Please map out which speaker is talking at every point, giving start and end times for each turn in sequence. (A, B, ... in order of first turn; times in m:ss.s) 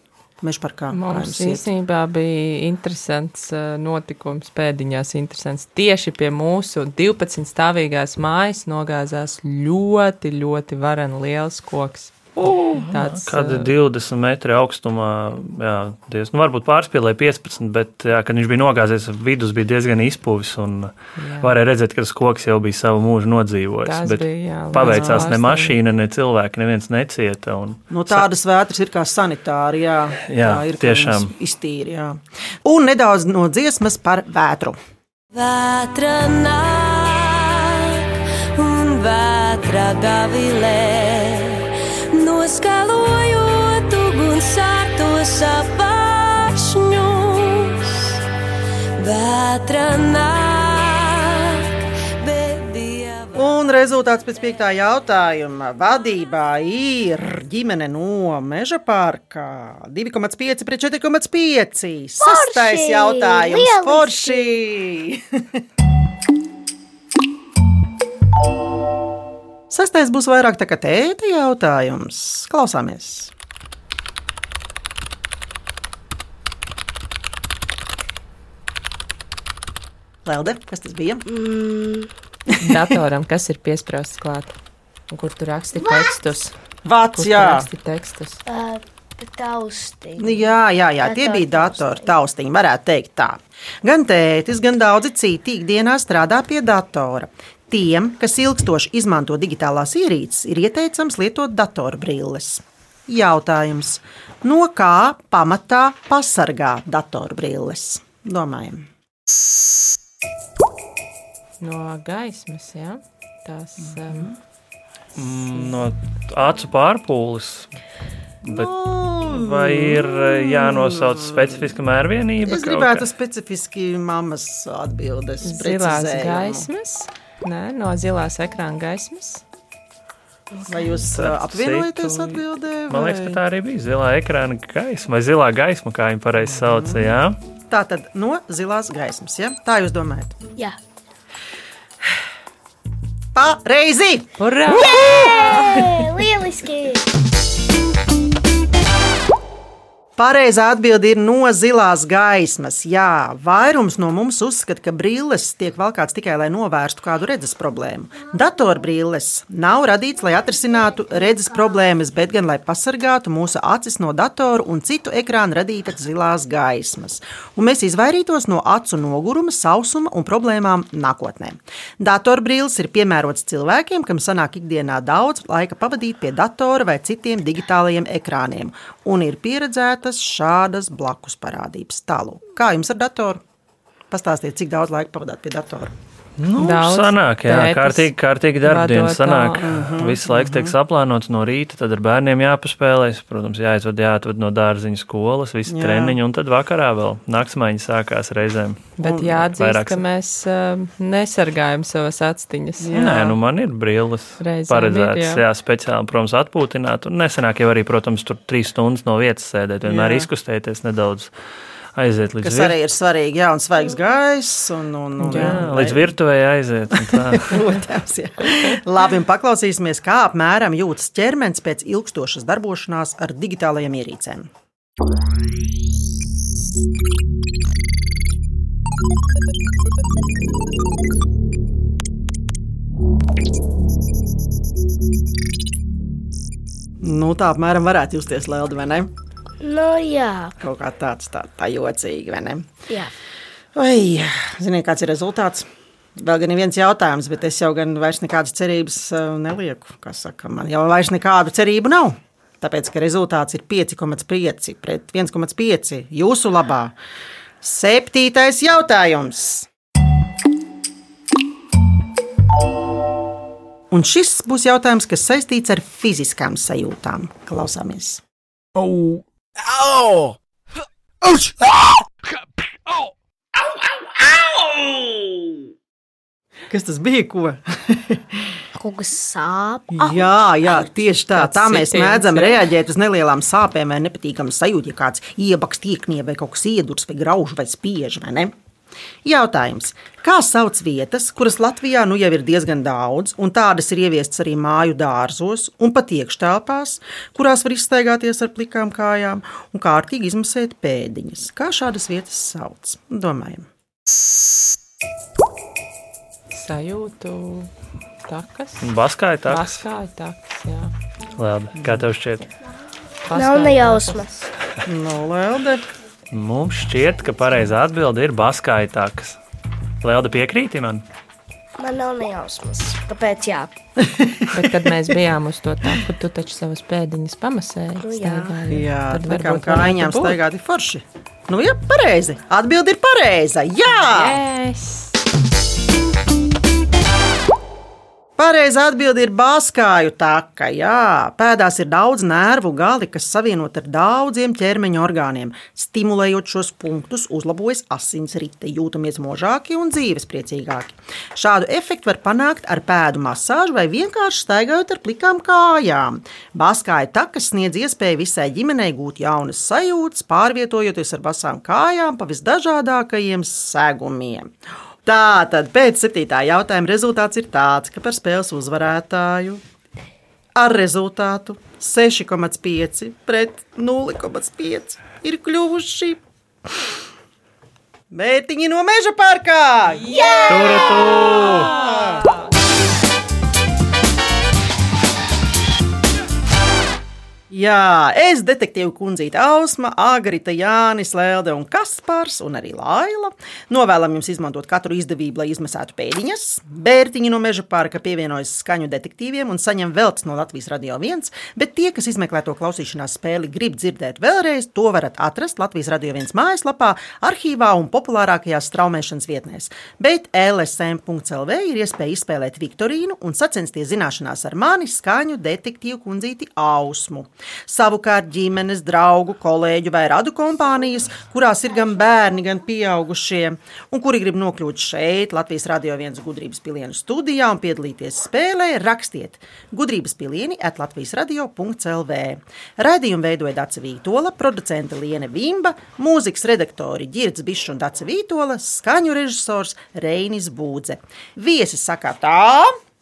0:00.4-0:01.6 A
0:00.9-0:13.7 B
0:12.4-0:28.3 C
0:21.2-0:21.5 B
0:23.8-0:25.8 B
0:24.8-0:25.3 A
0:27.9-0:34.8 A
0:30.3-0:31.3 C
0:35.3-0:48.2 D
0:49.0-0:53.5 D
0:53.3-1:05.4 A
1:02.2-1:04.6 E
1:09.7-1:13.3 A
1:20.2-1:21.2 A
1:21.3-1:22.1 E
1:22.6-1:24.6 B
1:25.1-1:26.6 B
1:25.8-1:26.1 E
1:26.8-1:27.7 A
1:27.1-1:28.4 B
1:28.5-1:30.5 E
1:30.2-1:48.9 A
1:31.0-1:32.1 E
1:51.6-1:54.3 B
1:53.8-1:54.3 A
1:55.2-1:57.8 C
1:58.4-2:03.1 C
1:58.5-2:01.7 A
2:02.4-2:06.7 A
2:05.4-2:09.4 B
2:10.5-2:11.1 E
2:10.7-2:13.4 A
2:11.1-2:17.4 C
2:16.4-2:17.2 A
2:17.7-2:20.4 A
2:23.4-2:26.1 A
2:24.4-2:25.1 B
2:24.7-2:27.0 E
2:30.2-3:03.4 A
3:04.1-3:05.9 A
3:06.4-3:18.9 C
3:06.6-3:09.6 B
3:09.6-3:10.7 A
3:15.7-3:16.2 A
3:19.0-3:22.9 B
3:19.0-3:19.4 A
3:19.5-3:20.0 C
3:22.8-3:23.4 A
3:22.9-3:31.3 C
3:24.4-3:25.4 B
3:29.8-3:30.3 A
3:32.0-3:32.7 C
3:32.4-3:36.1 A
3:35.2-3:35.7 B
3:35.3-3:37.7 C
3:37.0-3:44.5 A
3:57.0-3:59.1 A
3:59.6-4:00.6 E
4:00.6-4:02.7 A
4:03.8-4:16.9 A
4:17.6-4:19.7 A
4:23.9-4:28.2 A
4:28.8-4:29.2 A
4:29.7-4:30.4 A
4:31.3-4:31.6 A
4:36.7-4:38.6 A
4:38.8-4:40.3 E
4:39.9-4:48.5 A
4:41.4-4:42.6 B
4:49.2-5:03.7 A
5:06.5-5:07.7 B
5:08.3-5:08.9 B
5:08.8-5:09.8 C
5:09.4-5:10.9 B
5:11.4-5:12.5 C
5:11.8-5:12.1 A
5:13.3-5:14.3 B
5:13.3-5:14.4 E
5:14.9-5:15.8 A
5:16.3-5:19.4 C
5:20.0-5:21.0 C
5:21.8-5:23.7 E
5:24.0-5:24.8 A
5:24.5-5:30.4 B
5:28.0-5:28.6 E
5:28.7-5:34.4 A
5:33.9-5:35.2 B
5:38.4-6:04.5 A
6:05.0-6:09.6 A
6:10.6-6:16.2 A
6:18.1-6:22.2 A
6:20.0-6:22.4 B
6:20.3-6:20.9 E
6:20.5-6:21.7 C
6:27.5-7:22.7 A